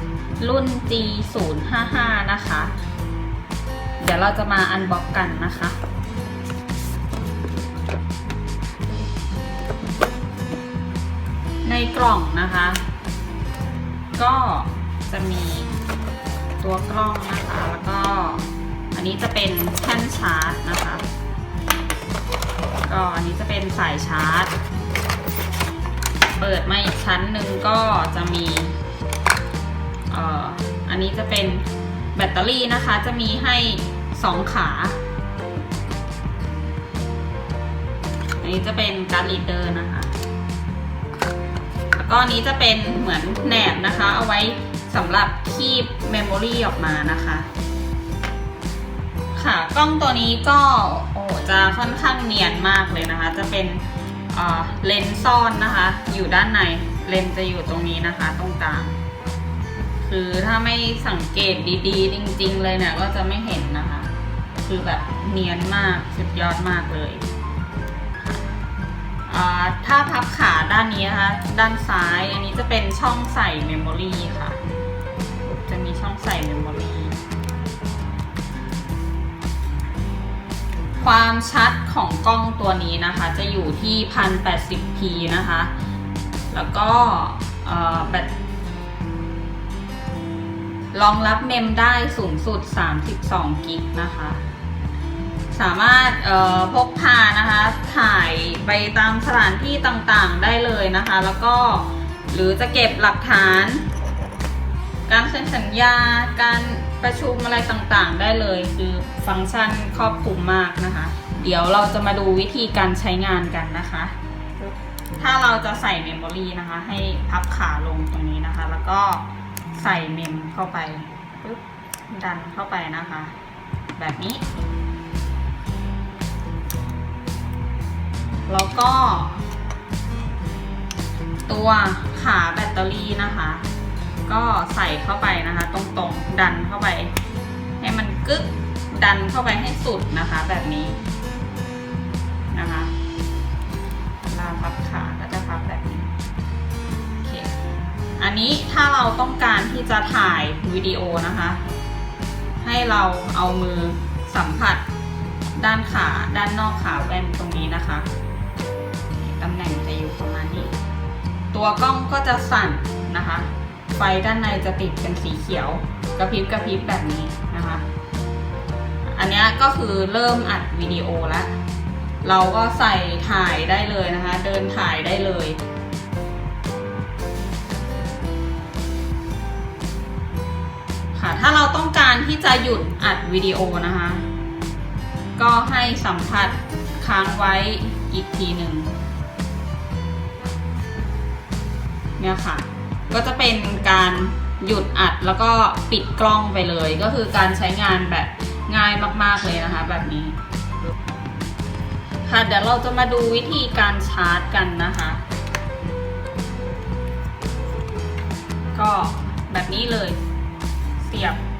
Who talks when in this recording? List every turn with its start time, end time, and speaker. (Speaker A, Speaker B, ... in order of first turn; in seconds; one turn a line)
Speaker A: 0.4-2.7
Speaker A: 4.0-5.8
Speaker A: 11.6-12.9
Speaker A: 14.1-15.7
Speaker A: 16.6-21.1
Speaker A: 22.8-24.5
Speaker A: 26.4-28.8
Speaker A: 30.1-35.0
Speaker A: 38.4-40.1
Speaker A: 41.9-47.5
Speaker A: 49.3-59.0
Speaker A: 60.0-67.3
Speaker A: 68.2-68.5
Speaker A: 69.3-74.6
Speaker A: 75.4-77.2
Speaker A: 81.0-85.7
Speaker A: 86.5-88.3
Speaker A: 90.9-94.4
Speaker A: 95.5-103.8
Speaker A: 105.1-123.3
Speaker A: 124.0-124.5
Speaker A: 128.5-129.4
Speaker A: 131.5-133.6
Speaker A: 134.2-137.1
Speaker A: 137.8-141.0
Speaker A: 142.5-142.9
Speaker A: 144.3-146.1
Speaker A: 147.2-147.5
Speaker A: 148.2-151.6
Speaker A: 152.6-154.8
Speaker A: 155.5-158.1
Speaker A: 159.1-160.7
Speaker A: 161.5-167.8
Speaker A: 169.0-171.5
Speaker A: 172.2-175.6
Speaker A: 181.1-184.3
Speaker A: 185.3-188.9
Speaker A: 192.2-200.4
Speaker A: 202.2-205.2
Speaker A: 208.7-210.2
Speaker A: 211.0-211.4